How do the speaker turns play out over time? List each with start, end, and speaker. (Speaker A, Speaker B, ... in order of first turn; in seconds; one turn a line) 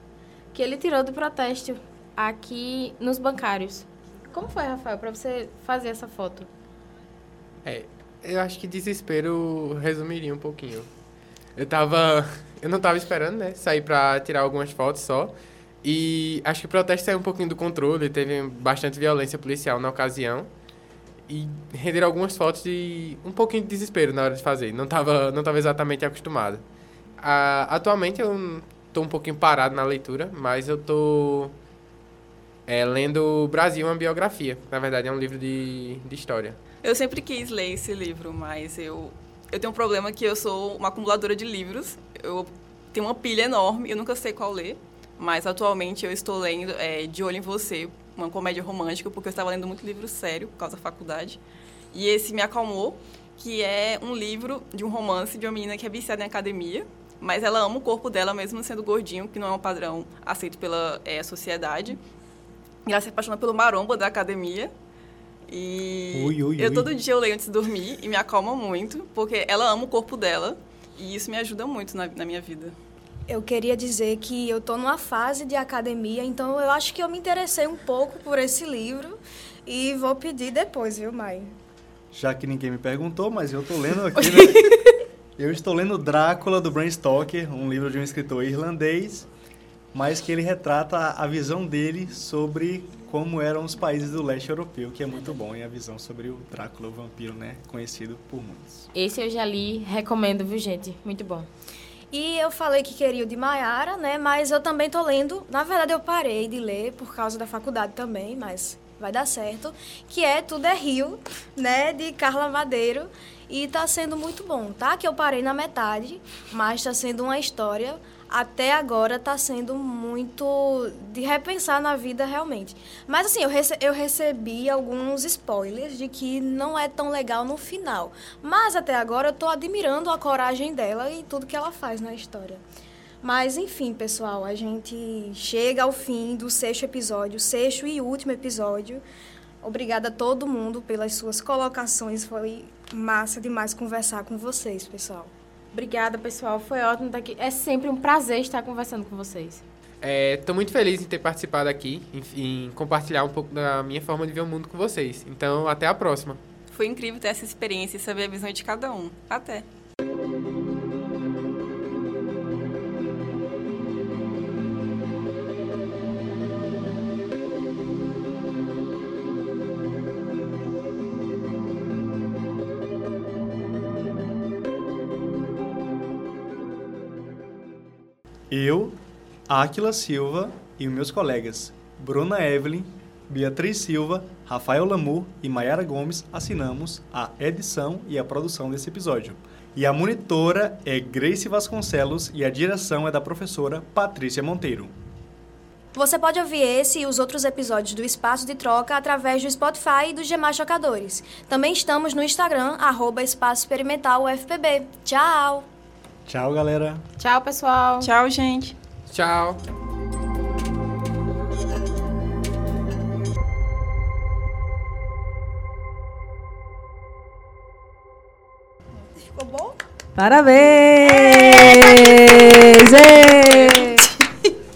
Speaker A: 0.5-6.5
Speaker B: 7.6-10.9
Speaker B: 11.6-20.5
Speaker B: 21.3-26.6
Speaker B: 27.2-31.6
Speaker B: 32.7-36.6
Speaker C: 36.8-51.4
Speaker C: 51.9-62.0
Speaker C: 62.9-64.7
Speaker C: 65.5-72.7
Speaker D: 66.1-66.9
Speaker E: 73.3-81.5
Speaker D: 82.1-84.8
Speaker D: 85.4-89.3
Speaker D: 89.9-98.9
Speaker A: 98.9-101.5
Speaker E: 102.1-132.6
Speaker E: 133.2-139.0
Speaker E: 139.6-145.3
Speaker A: 145.7-149.6
Speaker B: 150.0-156.4
Speaker C: 156.7-159.6
Speaker D: 178.5-179.0
Speaker D: 179.5-194.9
Speaker E: 195.9-205.7
Speaker D: 206.2-207.0
Speaker A: 207.2-208.1
Speaker C: 208.0-208.8
Speaker B: 209.1-209.6
Speaker E: 219.1-219.8
Speaker F: 220.2-224.1
Speaker E: 221.0-222.5
Speaker E: 223.5-223.9